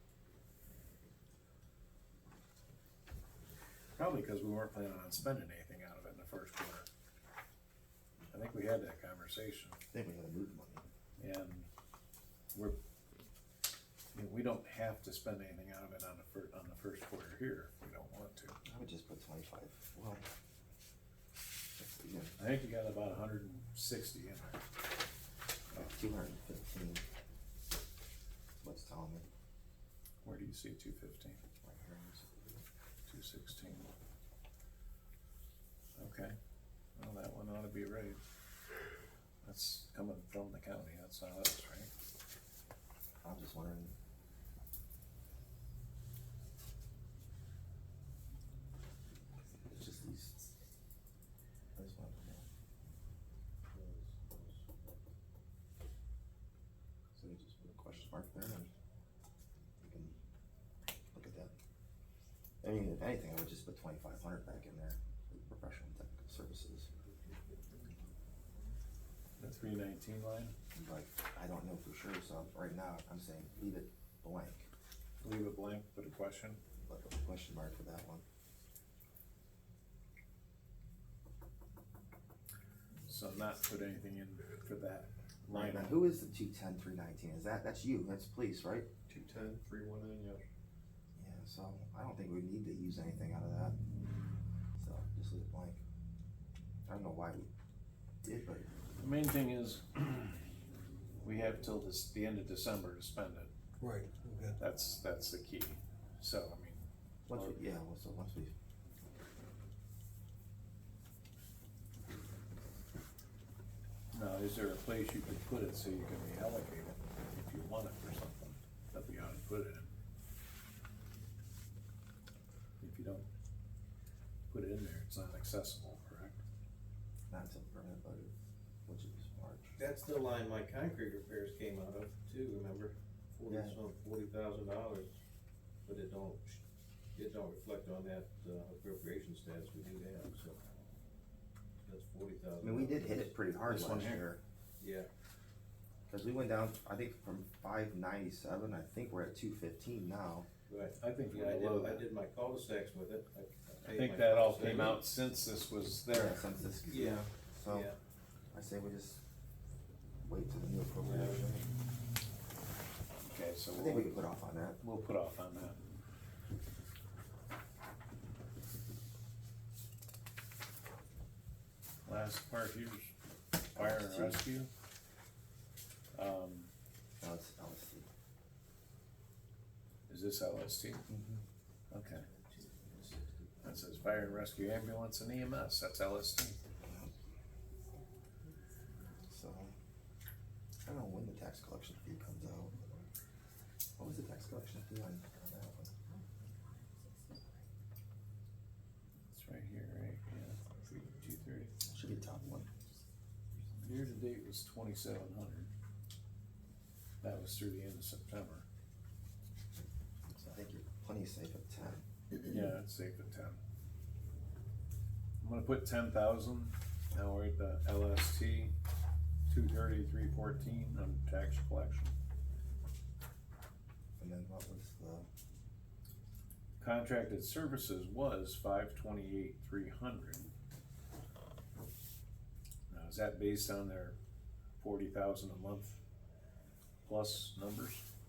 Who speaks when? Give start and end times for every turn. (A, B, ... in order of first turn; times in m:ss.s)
0:04.0-0:06.8 A
0:08.3-0:09.8 A
0:09.9-0:10.8 B
0:11.2-0:11.7 A
0:14.1-0:18.6 A
0:18.6-0:20.2 B
0:21.8-0:22.3 B
0:22.4-0:24.6 A
0:25.7-0:27.0 B
0:28.6-0:29.3 B
0:30.2-0:31.4 A
0:31.6-0:32.6 B
0:33.1-0:33.9 A
0:36.0-0:36.4 A
0:37.0-0:38.2 A
0:39.4-0:41.9 A
0:43.2-0:43.9 B
0:49.7-0:50.4 B
0:51.8-0:52.5 B
0:53.7-0:55.0 C
0:57.1-0:58.7 B
0:59.8-1:00.2 B
1:01.1-1:01.5 B
1:02.6-1:06.9 B
1:07.0-1:08.0 C
1:09.4-1:10.5 A
1:10.7-1:14.7 B
1:15.2-1:16.6 A
1:16.8-1:18.2 B
1:23.1-1:26.0 A
1:25.5-1:28.9 B
1:29.1-1:30.4 C
1:31.2-1:33.8 B
1:34.8-1:35.8 B
1:36.8-1:37.5 B
1:38.2-1:38.7 B
1:39.0-1:40.4 A
1:41.2-1:43.5 A
1:43.8-1:44.5 C
1:44.6-1:47.6 A
1:47.3-1:48.5 B
1:54.1-1:59.9 A
2:02.8-2:03.3 A
2:04.5-2:06.4 A
2:07.3-2:08.3 B
2:08.8-2:09.8 B
2:09.8-2:15.1 C
2:13.5-2:13.8 B
2:15.8-2:16.6 C
2:17.1-2:20.6 C
2:21.8-2:23.3 C
2:22.6-2:24.4 B
2:23.6-2:24.2 A
2:24.8-2:25.1 C
2:26.1-2:30.5 B
2:30.7-2:35.0 C
2:31.0-2:32.0 A
2:33.8-2:36.5 A
2:36.1-2:37.9 B
2:36.8-2:38.0 C
2:38.5-2:39.2 B
2:40.2-2:41.7 B
2:41.0-2:41.4 C
2:43.2-2:44.2 A
2:43.7-2:44.8 B
2:44.8-2:45.8 A
2:52.0-2:53.1 A
2:53.7-2:54.7 A
2:53.7-2:54.4 B
2:56.1-2:56.7 A
2:57.2-2:58.1 B
3:00.1-3:01.0 A
3:01.1-3:01.4 B
3:01.9-3:02.3 A
3:02.3-3:04.0 C
3:03.6-3:06.6 A
3:06.8-3:07.1 B
3:09.2-3:09.7 B
3:10.8-3:12.9 B
3:14.0-3:15.9 B
3:19.3-3:21.8 A
3:21.9-3:22.7 B
3:23.7-3:25.7 A
3:27.2-3:28.6 A
3:30.3-3:32.0 B
3:32.4-3:33.6 A
3:35.4-3:38.7 A
3:39.5-3:42.1 A
3:44.2-3:45.3 B
3:46.8-3:50.5 A
3:52.9-3:54.2 A
3:54.8-3:56.0 A
3:57.0-3:58.0 A